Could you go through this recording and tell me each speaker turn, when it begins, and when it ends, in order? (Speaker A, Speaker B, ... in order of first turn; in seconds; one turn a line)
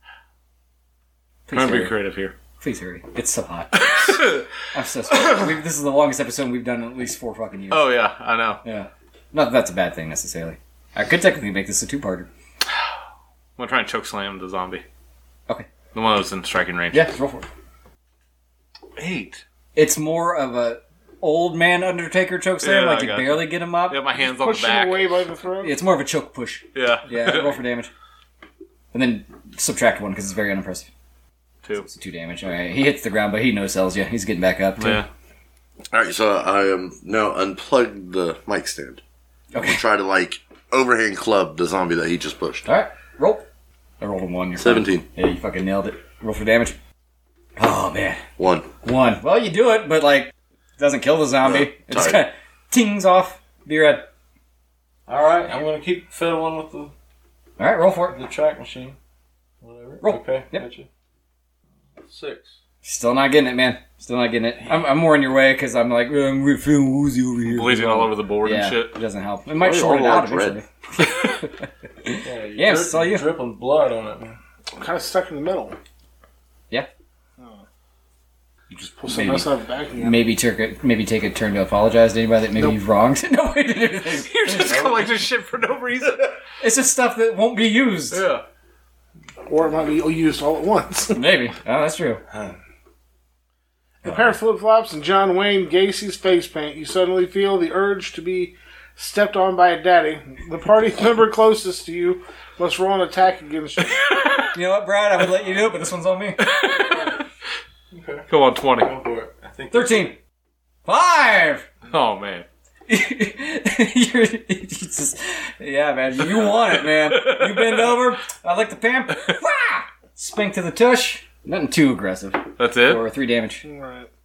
Speaker A: 1.5-1.9
Speaker B: 1.5-2.4
Speaker A: 2.6-4.2
Speaker B: 3.8-4.5
Speaker A: 4.7-8.0
Speaker B: 5.1-5.5
Speaker B: 7.7-8.6
Speaker A: 8.6-12.3
Speaker B: 13.6-14.8
Speaker B: 15.9-17.0
Speaker A: 16.9-17.5
Speaker B: 19.0-19.4
Speaker A: 19.8-24.0
Speaker B: 22.6-25.2
Speaker C: 24.2-25.7
Speaker A: 25.6-27.9
Speaker B: 26.7-27.6
Speaker A: 28.9-30.9
Speaker A: 31.8-35.0
Speaker B: 34.8-35.1
Speaker D: 35.9-39.0
Speaker A: 39.5-39.8
Speaker D: 39.6-42.6
Speaker A: 42.6-43.5
Speaker A: 44.0-46.8
Speaker D: 44.6-45.1
Speaker A: 47.6-48.2
Speaker D: 48.4-48.7
Speaker A: 48.8-54.1
Speaker D: 51.4-52.2
Speaker E: 55.1-56.9
Speaker A: 57.6-58.2
Speaker E: 58.1-59.0
Speaker E: 59.6-60.9
Speaker A: 60.0-60.7
Speaker E: 62.1-62.6
Speaker A: 62.8-73.3
Speaker B: 67.5-69.0
Speaker D: 69.6-70.6
Speaker E: 72.2-74.4
Speaker C: 74.8-75.8
Speaker C: 77.4-77.6
Speaker A: 78.7-79.5
Speaker C: 78.9-80.2
Speaker A: 80.0-84.9
Speaker B: 84.1-86.3
Speaker E: 84.7-85.0
Speaker A: 86.6-88.2
Speaker B: 88.1-88.4
Speaker C: 89.5-91.2
Speaker A: 91.1-92.2
Speaker C: 94.0-104.0
Speaker A: 104.5-106.4
Speaker B: 106.4-107.0
Speaker E: 107.9-108.3
Speaker B: 108.3-108.9
Speaker E: 108.8-110.1
Speaker A: 109.7-110.2
Speaker A: 110.9-111.7
Speaker B: 111.9-112.5
Speaker A: 112.9-123.6
Speaker B: 116.9-118.0
Speaker B: 122.6-123.0
Speaker C: 123.6-124.1